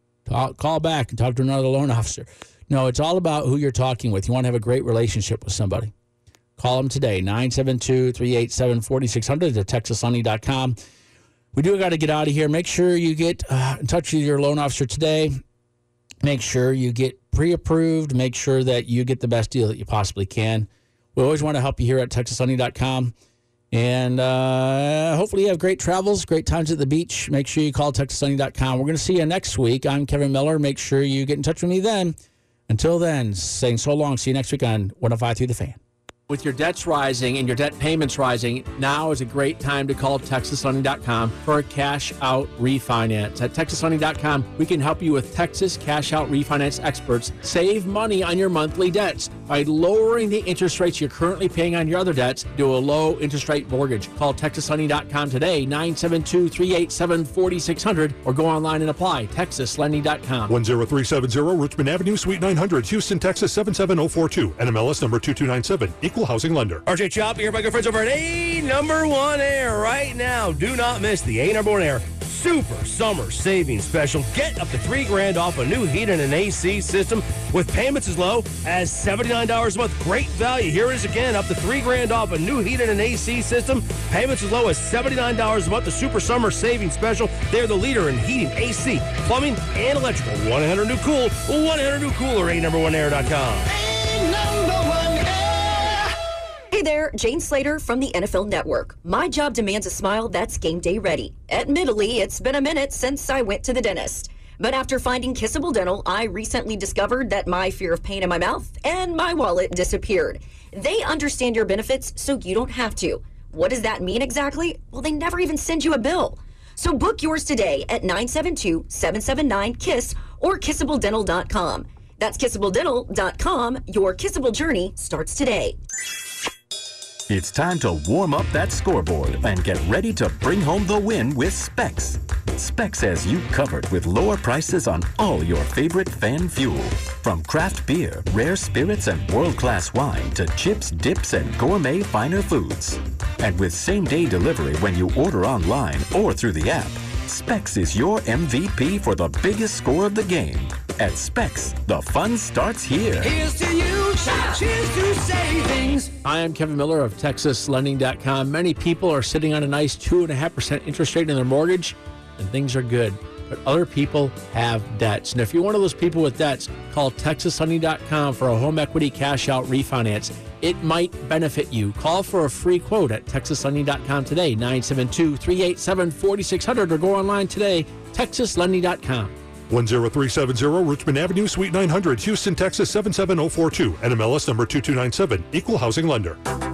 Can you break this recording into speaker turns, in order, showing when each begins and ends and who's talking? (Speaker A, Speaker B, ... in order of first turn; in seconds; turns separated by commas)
Speaker A: 0.3-5.9, Speaker A: 6.6-10.8, Speaker A: 11.5-15.4, Speaker A: 16.2-23.1, Speaker A: 23.7-32.1, Speaker A: 32.7-60.6, Speaker B: 60.5-66.8, Speaker C: 66.9-96.0, Speaker D: 96.7-125.8, Speaker E: 127.3-153.5, Speaker C: 153.6-156.0, Speaker A: 156.2-179.3, Speaker B: 179.7-186.4